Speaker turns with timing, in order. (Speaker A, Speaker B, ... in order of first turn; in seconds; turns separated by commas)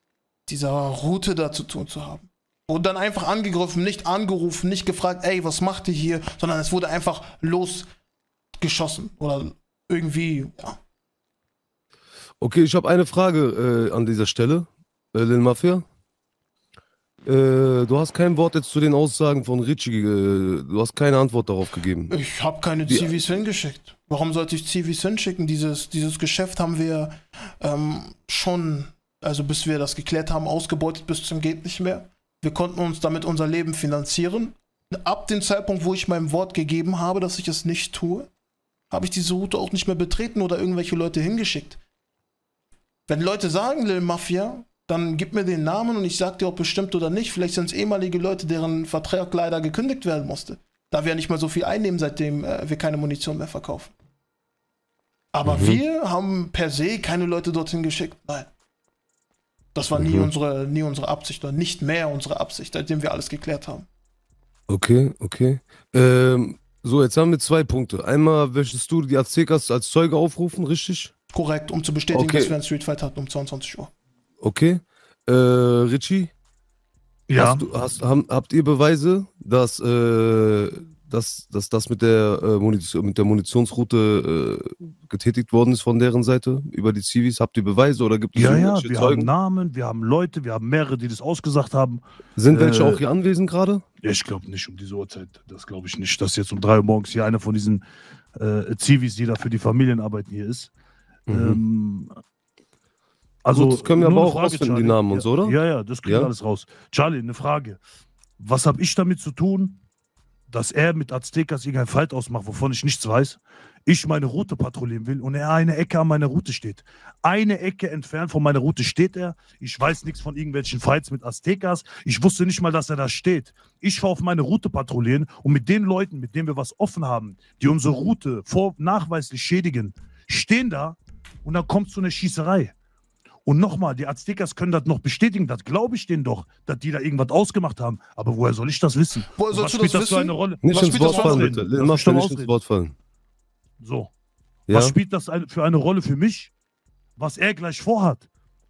Speaker A: 0.5-7.9, Speaker A: 8.6-10.8, Speaker B: 12.4-15.8, Speaker B: 17.2-22.1, Speaker A: 22.1-38.3, Speaker B: 22.8-23.1, Speaker A: 38.9-41.8, Speaker A: 43.1-53.9, Speaker A: 55.3-58.5, Speaker B: 55.4-55.8, Speaker A: 59.7-63.9, Speaker B: 59.9-60.3, Speaker B: 64.7-71.1, Speaker A: 71.3-73.9, Speaker B: 72.1-72.5, Speaker B: 74.4-76.3, Speaker C: 77.3-77.6, Speaker B: 77.3-89.3, Speaker C: 88.3-93.0, Speaker B: 92.4-93.8, Speaker C: 94.0-97.8, Speaker C: 98.3-100.7, Speaker B: 101.3-101.6, Speaker C: 101.3-102.1, Speaker C: 103.4-107.8, Speaker B: 103.5-106.3, Speaker C: 108.4-109.8, Speaker C: 110.5-132.7, Speaker C: 133.4-142.5, Speaker A: 139.3-141.5, Speaker B: 140.6-142.9, Speaker C: 143.8-144.1, Speaker B: 144.7-144.9, Speaker C: 144.7-146.5, Speaker C: 147.2-148.2